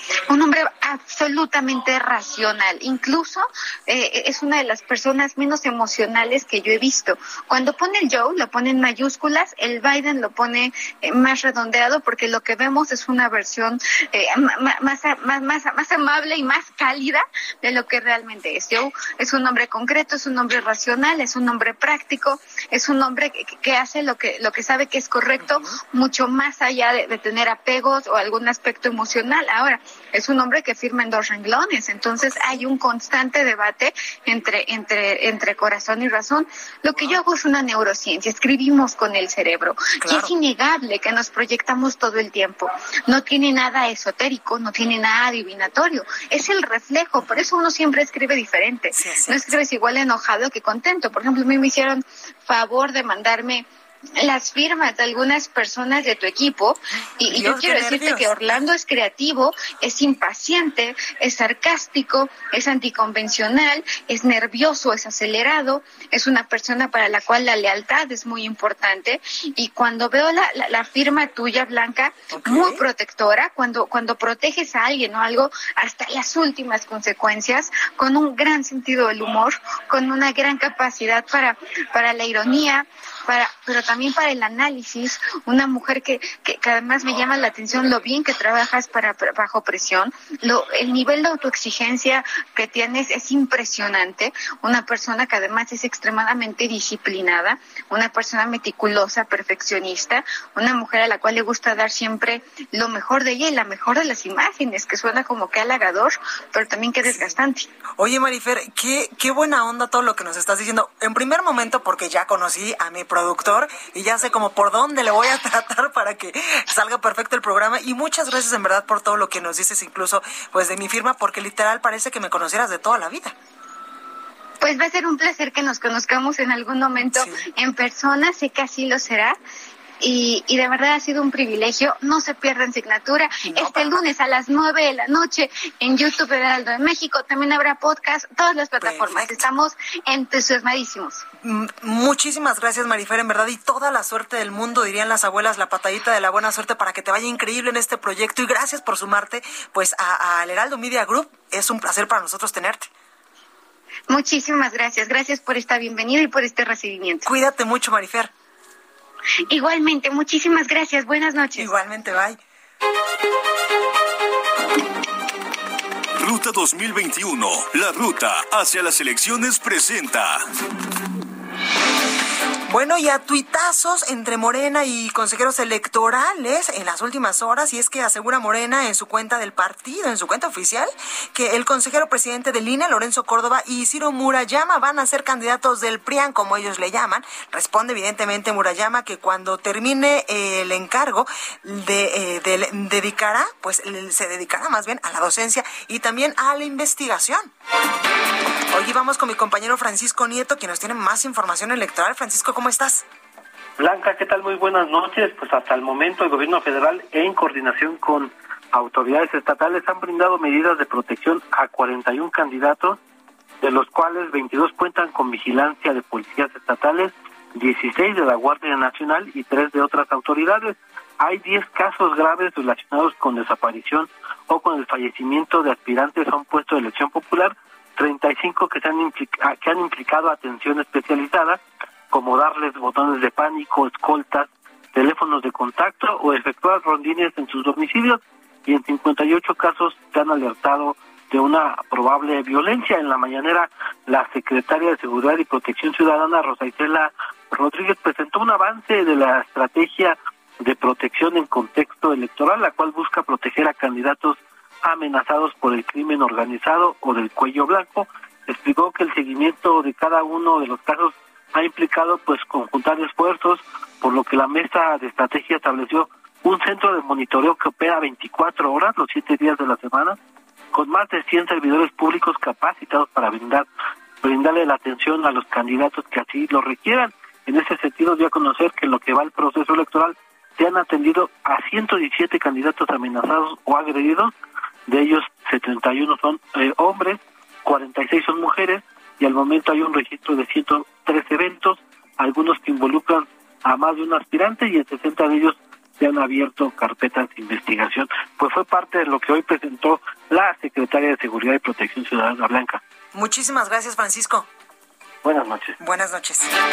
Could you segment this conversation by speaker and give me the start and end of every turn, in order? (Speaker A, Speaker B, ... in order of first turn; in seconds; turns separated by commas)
Speaker A: 0.3-53.7, Speaker B: 25.4-25.8, Speaker B: 32.2-32.6, Speaker B: 40.0-40.3, Speaker B: 48.9-49.6, Speaker A: 54.2-107.7, Speaker B: 57.2-58.5, Speaker B: 72.3-72.8, Speaker B: 107.0-107.4, Speaker B: 108.0-123.3, Speaker A: 124.6-129.4, Speaker B: 127.0-127.5, Speaker A: 130.0-141.2, Speaker B: 133.4-134.1, Speaker B: 138.8-139.5, Speaker B: 141.4-152.9, Speaker A: 154.1-157.2, Speaker B: 157.2-158.3, Speaker A: 159.5-161.7, Speaker B: 161.6-162.4, Speaker C: 166.2-170.4, Speaker B: 172.7-197.5, Speaker B: 198.7-203.1, Speaker D: 203.8-213.0, Speaker D: 213.6-270.2, Speaker D: 270.7-273.7, Speaker D: 274.2-284.3, Speaker D: 284.9-302.8, Speaker B: 303.1-304.5, Speaker D: 305.2-305.8, Speaker B: 305.8-306.5